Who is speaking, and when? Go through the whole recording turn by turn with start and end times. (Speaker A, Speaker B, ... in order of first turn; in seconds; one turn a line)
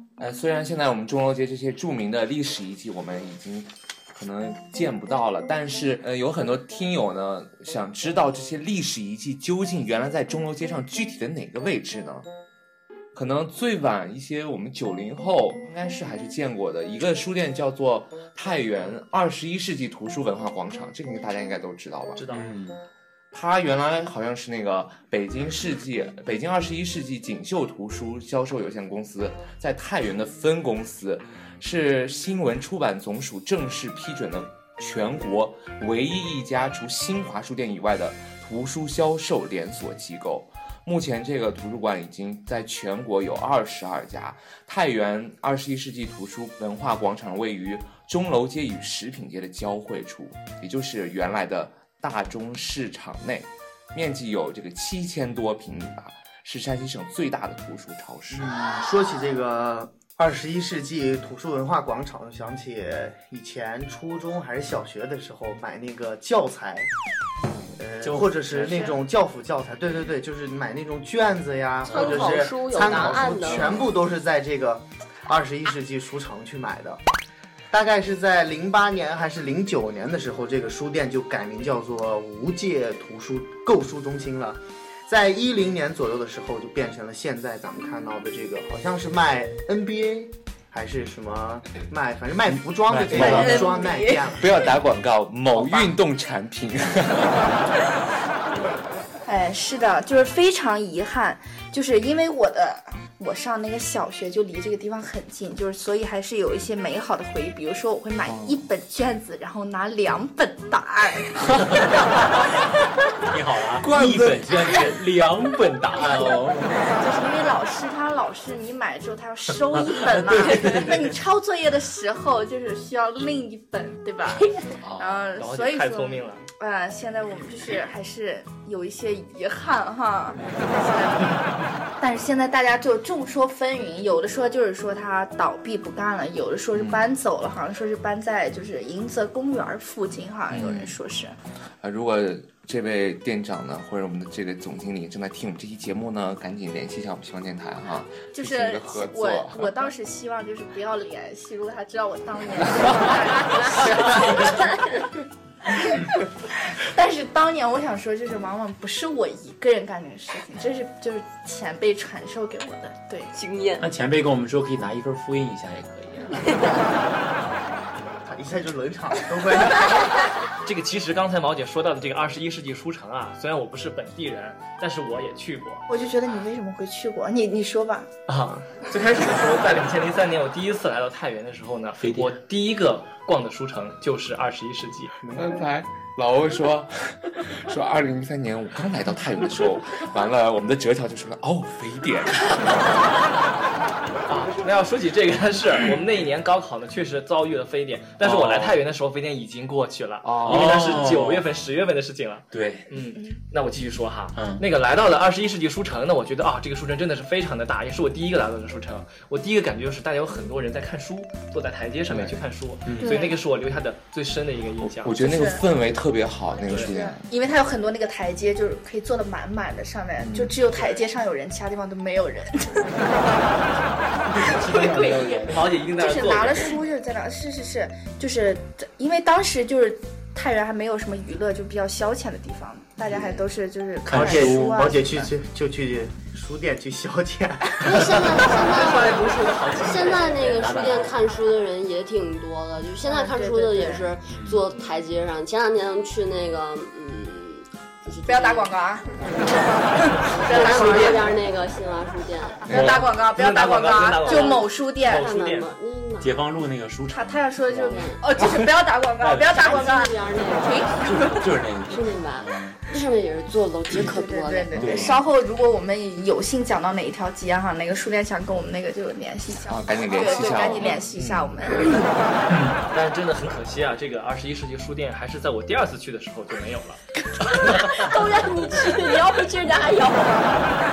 Speaker A: 0.2-12.3
Speaker A: 13.1-22.2
Speaker B: 22.2-22.5
Speaker C: 22.3-22.8
Speaker A: 23.3-58.5
Speaker D: 58.3-66.9
Speaker D: 67.8-77.0
Speaker C: 68.0-68.9
Speaker E: 68.7-68.9
Speaker F: 71.8-73.7
Speaker C: 72.8-73.8
Speaker A: 72.9-73.8
Speaker D: 77.7-94.7
Speaker C: 92.9-93.7
Speaker A: 93.1-93.6
Speaker E: 93.1-94.2
Speaker A: 94.4-97.5
Speaker D: 95.5-95.9
Speaker E: 98.5-111.9
Speaker A: 108.2-108.5
Speaker C: 113.2-116.8
Speaker A: 113.8-114.5
Speaker E: 117.0-141.3
Speaker C: 120.4-120.9
Speaker C: 124.8-125.3
Speaker B: 125.4-126.4
Speaker A: 136.7-137.1
Speaker A: 140.5-141.0
Speaker A: 141.8-149.8
Speaker E: 148.3-154.8
Speaker F: 154.7-155.0
Speaker E: 155.7-163.3
Speaker F: 163.3-163.9
Speaker C: 163.8-166.7
Speaker D: 168.2-170.2
Speaker B: 170.6-175.8
Speaker E: 175.9-178.1
Speaker B: 178.3-185.1
Speaker C: 182.0-182.3
Speaker A: 185.2-192.5
Speaker B: 194.3-215.2
Speaker C: 198.2-198.8
Speaker C: 200.3-201.5
Speaker C: 202.5-202.9
Speaker C: 204.3-204.6
Speaker C: 212.8-213.2
Speaker E: 213.0-213.3
Speaker A: 214.9-217.2
Speaker E: 215.2-215.6
Speaker B: 216.7-216.9
Speaker E: 216.7-223.2
Speaker C: 224.3-225.8
Speaker B: 224.5-226.8
Speaker E: 225.9-235.3
Speaker D: 233.1-233.4
Speaker C: 234.1-234.8
Speaker D: 234.1-238.4
Speaker F: 237.8-249.7
Speaker B: 238.4-240.8
Speaker C: 240.5-241.1
Speaker E: 243.0-244.1
Speaker C: 244.3-244.6
Speaker B: 244.7-245.0
Speaker E: 248.2-249.1
Speaker E: 250.0-251.4
Speaker B: 250.0-251.4
Speaker F: 250.3-252.7
Speaker E: 252.7-255.3
Speaker C: 252.7-253.1
Speaker B: 252.7-255.7
Speaker F: 254.2-256.4
Speaker C: 256.2-259.8
Speaker E: 257.1-261.4
Speaker F: 257.8-258.2
Speaker F: 259.4-260.9
Speaker C: 261.0-262.8
Speaker F: 261.9-264.9
Speaker E: 263.9-272.1
Speaker C: 264.7-265.2
Speaker A: 269.7-271.8
Speaker F: 270.2-270.6
Speaker C: 272.5-272.8
Speaker B: 272.9-277.0
Speaker F: 277.4-280.7
Speaker B: 277.6-278.1